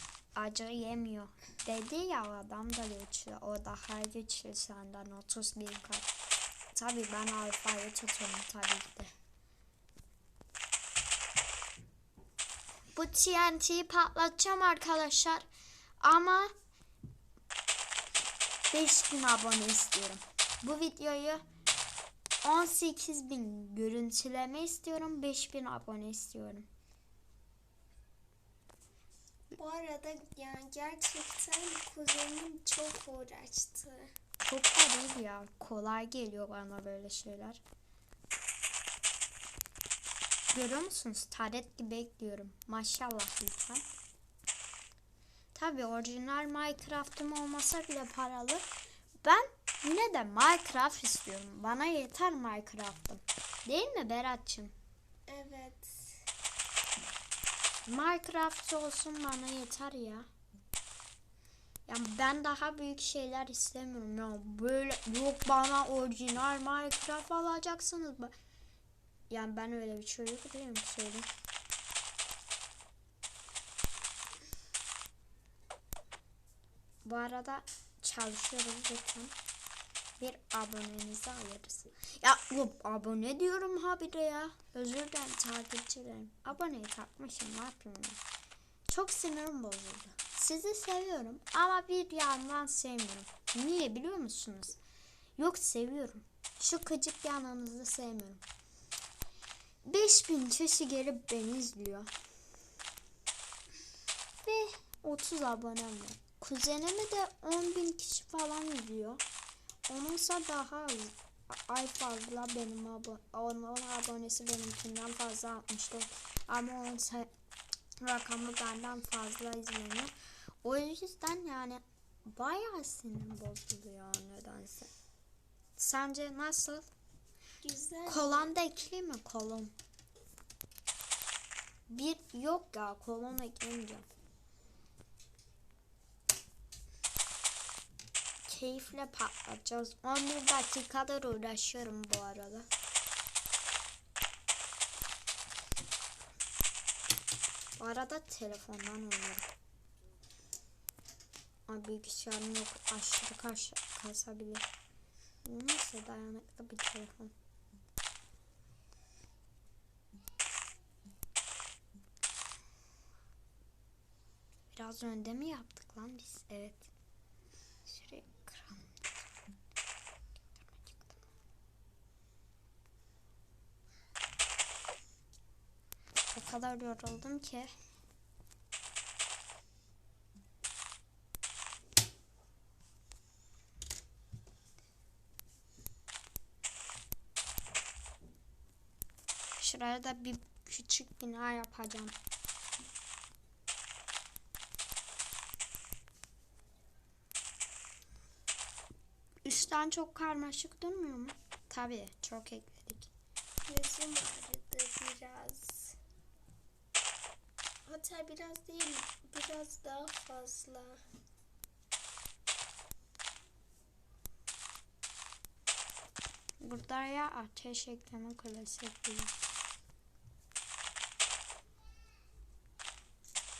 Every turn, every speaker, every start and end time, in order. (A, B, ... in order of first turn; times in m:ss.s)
0:00.4-0:06.1 A
0:06.7-0:09.1 A
0:12.9-0:15.5 A
0:16.0-0:16.5 A
0:18.7-0:21.4 A
0:22.4-0:26.7 A
0:29.5-0:34.1 B
0:34.4-0:37.6 A
0:40.5-0:43.8 A
0:45.5-0:48.7 A
0:49.2-0:54.7 A
0:55.3-0:56.2 B
0:57.9-1:00.3 A
1:01.9-1:08.3 A
1:09.3-1:11.3 A
1:17.0-1:19.4 A
1:20.2-1:28.2 A
1:28.9-1:34.8 A
1:35.4-1:38.4 A
1:39.8-1:42.1 A
1:44.4-1:49.2 A
1:49.9-1:57.3 A
1:58.0-2:00.1 A
2:00.6-2:04.9 A
2:05.8-2:06.9 A
2:07.6-2:08.5 B
2:08.0-2:09.7 A
2:11.9-2:14.1 A
2:18.5-2:22.7 A
2:27.8-2:29.5 A
2:31.7-2:34.6 A
2:35.4-2:37.3 A
2:44.7-2:46.9 A
2:47.8-2:49.3 A
2:50.5-2:51.2 A
2:56.3-2:57.7 A
3:09.6-3:12.2 A
3:19.4-3:23.1 A
3:23.7-3:26.0 B
3:27.9-3:31.0 B
3:36.6-3:39.4 A